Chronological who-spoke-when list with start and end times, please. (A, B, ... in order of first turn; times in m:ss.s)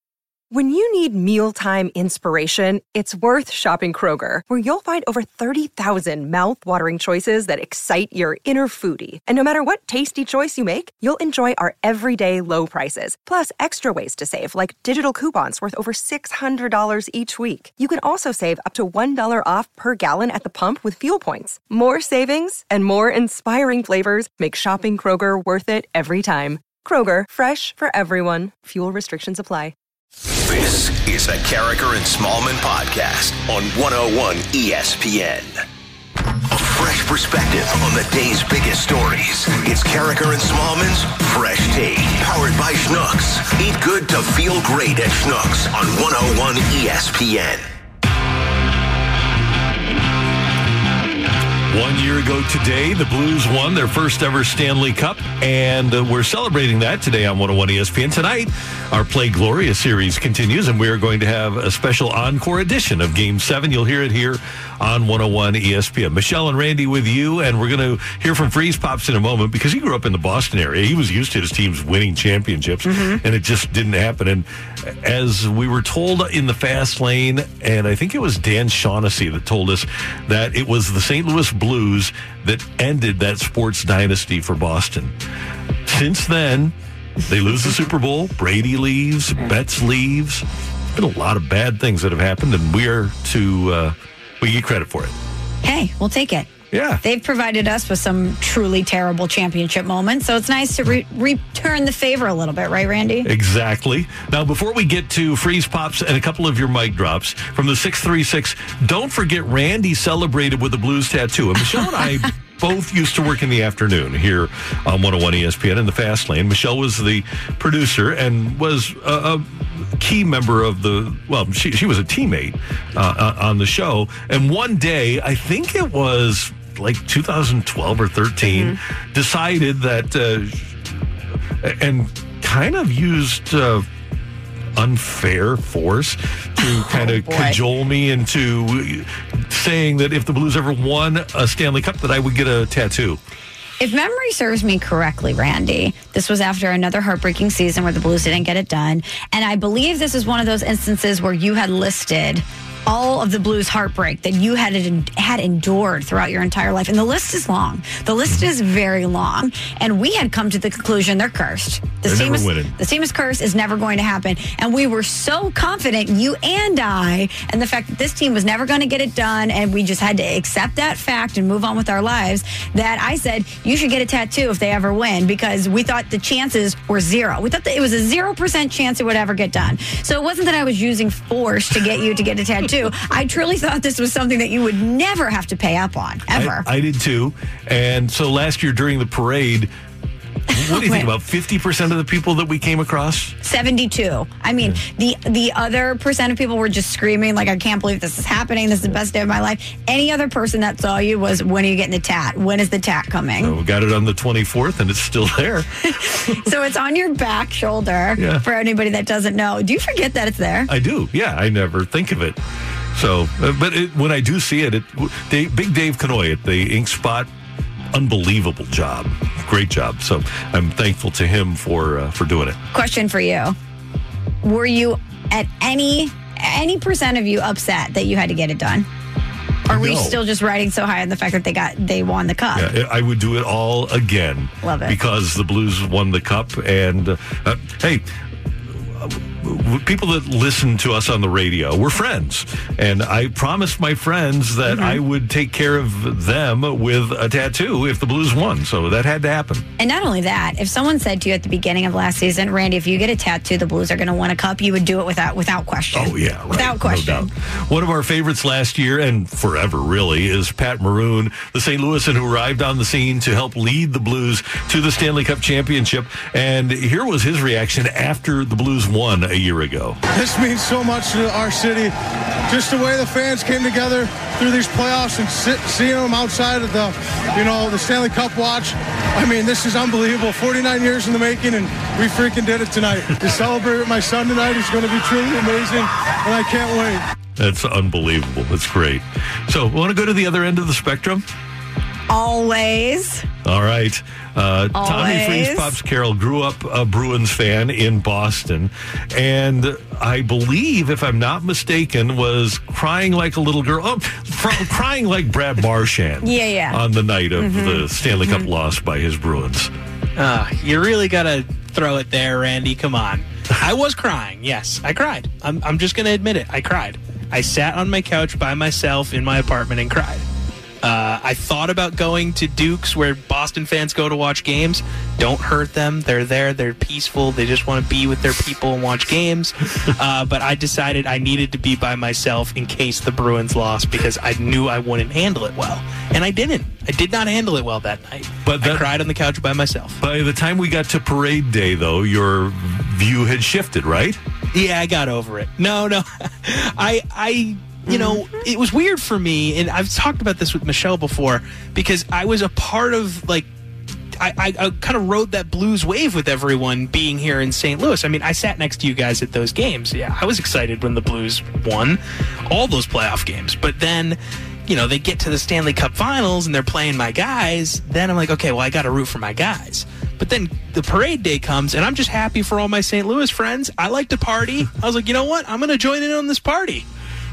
0:00.5-0:29.7 A
0:30.4-0:35.6 B
0:36.5-0:47.6 B
0:51.7-1:25.1 C
1:12.8-1:13.2 D
1:25.8-1:26.7 C
1:27.2-1:35.1 C
1:35.6-1:36.5 D
1:36.7-1:37.0 C
1:37.0-1:43.3 D
1:43.2-2:10.8 C
2:08.5-2:08.8 D
2:11.6-2:13.8 C
2:14.8-2:23.2 C
2:16.6-2:17.6 D
2:23.8-3:06.6 D
2:42.0-2:42.7 C
3:06.3-3:09.7 C
3:10.5-3:13.4 C
3:10.5-3:11.1 D
3:13.4-3:23.5 D
3:23.4-3:26.4 C
3:25.9-3:30.7 D
3:28.2-3:28.4 C
3:30.7-3:32.4 C
3:32.9-3:37.3 C
3:37.9-3:42.6 C
3:42.7-3:43.6 D
3:44.4-3:48.9 D
3:49.7-3:52.7 D
3:49.7-3:50.2 C
3:52.5-3:58.1 C
3:54.6-3:55.0 D
3:58.7-4:09.6 C
4:04.7-4:05.0 D
4:09.8-4:17.3 D
4:15.9-4:30.0 C
4:30.1-4:31.9 E
4:32.5-4:47.0 E
4:47.4-4:51.2 C
4:52.1-4:53.3 D
4:53.4-5:09.7 C
4:54.7-4:55.7 D
5:06.2-5:06.8 D
5:07.4-5:08.5 D
5:10.2-5:20.2 F
5:20.8-5:40.0 F
5:38.4-5:38.9 C
5:40.0-5:44.2 C
5:44.5-5:53.5 F
5:54.2-6:16.8 F